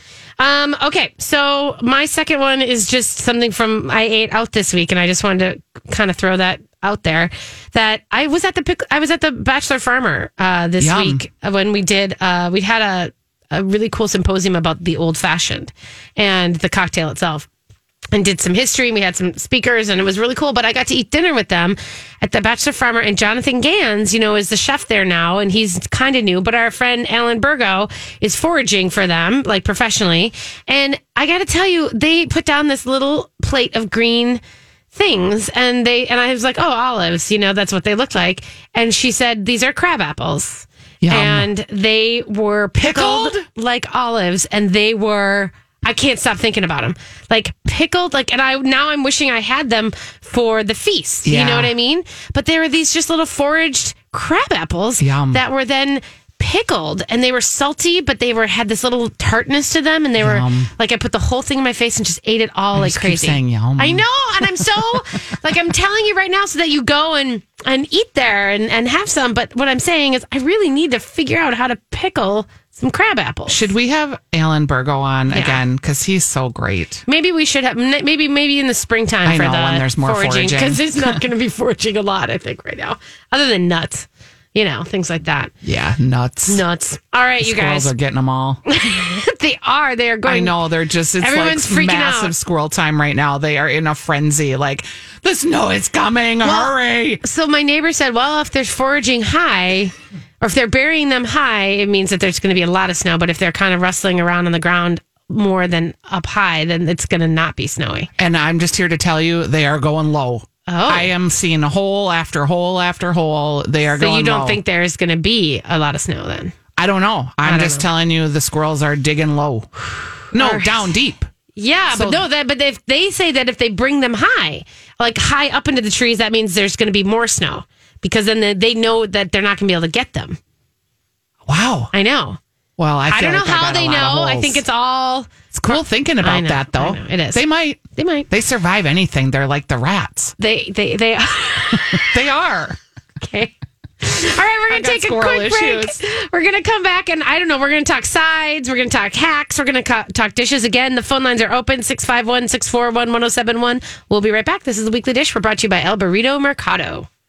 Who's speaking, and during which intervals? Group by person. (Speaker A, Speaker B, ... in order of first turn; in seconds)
Speaker A: 0.4-17.5, 18.1-34.4, 34.9-73.7, 75.3-75.6, 77.1-85.5, 86.5-87.9, 88.7-92.3, 96.4-108.1, 110.7-111.1, 113.9-116.5, 117.4-117.9, 120.3-120.9, 121.5-130.4, 131.9-132.4, 133.1-137.4, 137.9-138.3, 140.4-142.2, 143.2-157.1
Speaker B: 10.8-11.2, 41.0-41.5, 42.8-43.5, 51.2-51.7, 55.0-55.4, 60.2-60.7, 62.7-64.9, 73.5-77.0, 79.2-81.2, 85.6-86.6, 87.4-88.6, 90.2-97.2, 108.2-114.6, 116.8-119.7, 120.3-121.3, 121.9-122.2, 131.5-131.9, 132.8-134.6, 135.5-140.3, 142.0-142.8, 144.7-146.0